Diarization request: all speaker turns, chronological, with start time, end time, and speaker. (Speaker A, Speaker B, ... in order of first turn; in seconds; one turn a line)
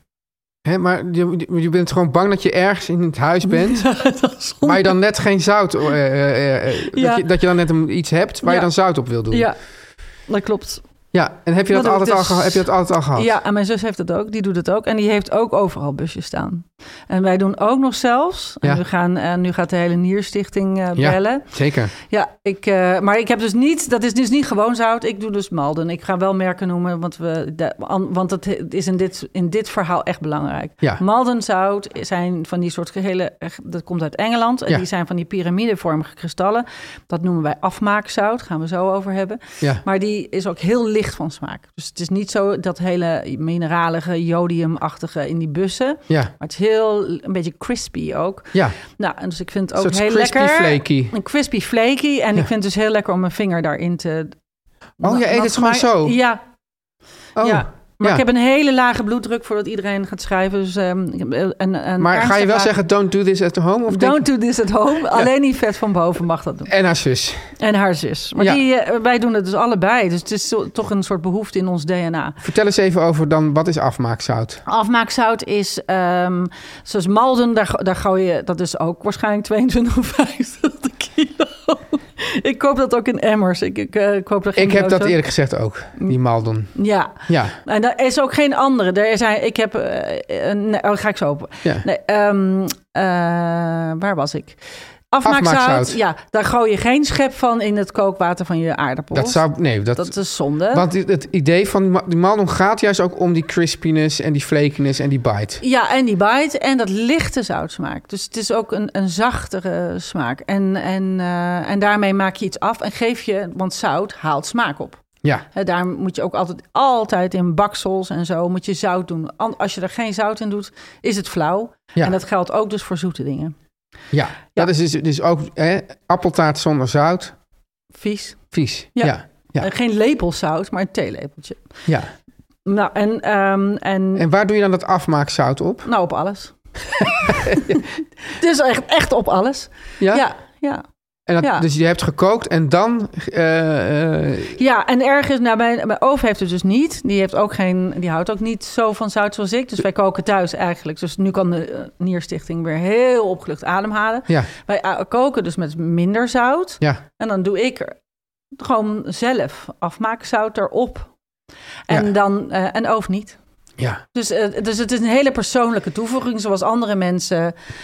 Speaker A: 0.6-3.9
Speaker B: 3.5-5.0
Speaker A: 4.6-9.5
Speaker B: 6.9-7.2
Speaker B: 8.4-8.7
Speaker B: 9.3-9.6
Speaker B: 10.3-10.8
Speaker A: 11.1-13.3
Speaker B: 11.7-21.5
Speaker A: 20.9-21.9
Speaker B: 22.0-54.4
Speaker A: 49.7-51.1
Speaker B: 55.0-56.4
Speaker A: 55.0-56.2
Speaker A: 57.4-58.2
Speaker B: 57.4-62.8
Speaker A: 62.0-64.2
Speaker B: 63.9-66.7
Speaker A: 66.7-67.5
Speaker B: 67.6-72.4
Speaker A: 72.4-74.6
Speaker B: 74.7-85.2
Speaker A: 84.5-87.6
Speaker B: 86.7-94.6
Speaker B: 95.1-99.4
Speaker A: 95.2-96.0
Speaker A: 99.1-100.2
Speaker B: 100.0-100.8
Speaker A: 100.7-105.6
Speaker B: 105.6-115.0
Speaker B: 115.5-123.5
Speaker A: 124.1-127.3
Speaker B: 127.9-131.7
Speaker A: 128.5-129.7
Speaker B: 132.7-134.3
Speaker A: 134.2-135.9
Speaker B: 135.8-140.8
Speaker A: 137.0-137.8
Speaker A: 140.0-140.2
Speaker A: 141.3-144.6
Speaker B: 141.4-141.7
Speaker B: 144.6-158.0
Speaker B: 158.6-161.1
Speaker B: 161.9-163.4
Speaker B: 164.1-167.5